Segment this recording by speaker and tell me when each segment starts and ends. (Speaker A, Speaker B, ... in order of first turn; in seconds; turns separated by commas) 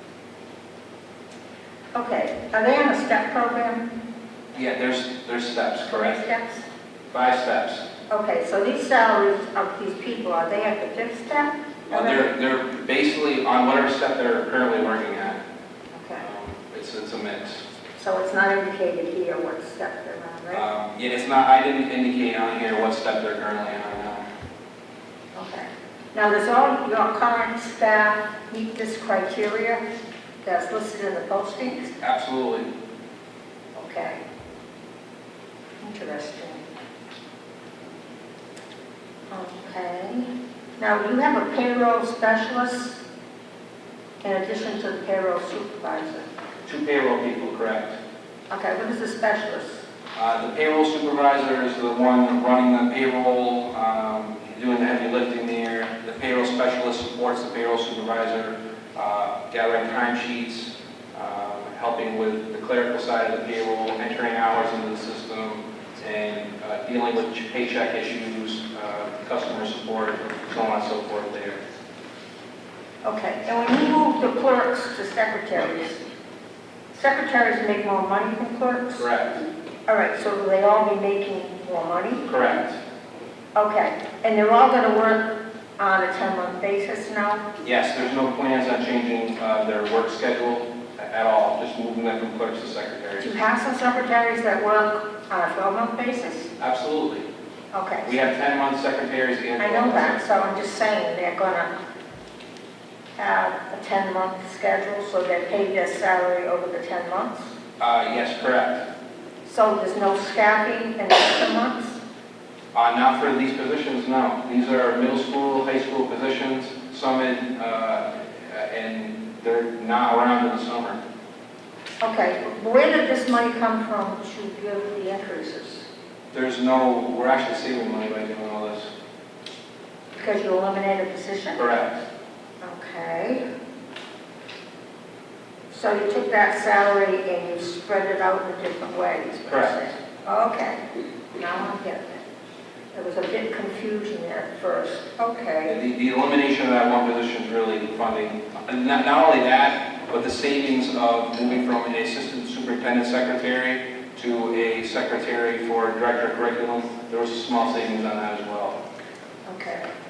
Speaker A: 1.9-3.9, Speaker B: 4.5-6.2, Speaker A: 5.8-6.6, Speaker B: 7.1-7.8, Speaker A: 8.1-12.3, Speaker B: 11.9-15.4, Speaker A: 15.9-16.2, Speaker B: 16.2-17.6, Speaker A: 18.0-20.6, Speaker B: 20.5-24.2, Speaker A: 25.3-29.8, Speaker A: 30.4-31.9, Speaker B: 32.0-32.7, Speaker A: 33.8-34.2, Speaker A: 35.8-36.6, Speaker A: 39.3-43.0, Speaker A: 44.2-46.3, Speaker B: 46.6-48.0, Speaker A: 48.5-49.8, Speaker B: 50.1-71.6, Speaker A: 73.0-76.0, Speaker A: 76.9-79.0, Speaker B: 79.0-79.4, Speaker A: 79.9-82.2, Speaker B: 82.2-82.8, Speaker A: 83.5-87.4, Speaker B: 87.6-93.3, Speaker A: 93.2-96.5, Speaker B: 96.6-97.3, Speaker A: 97.7-98.2, Speaker B: 98.0-100.2, Speaker A: 99.6-101.7, Speaker A: 103.2-107.5, Speaker B: 107.8-108.8, Speaker A: 109.5-112.0, Speaker B: 112.7-121.0, Speaker A: 122.0-125.8, Speaker B: 126.3-128.9, Speaker A: 130.1-131.6, Speaker B: 131.5-132.0, Speaker A: 132.6-133.4, Speaker A: 135.7-140.8, Speaker B: 139.5-139.8, Speaker A: 141.3-142.2, Speaker A: 142.9-145.8, Speaker B: 145.7-158.8, Speaker A: 159.4-159.9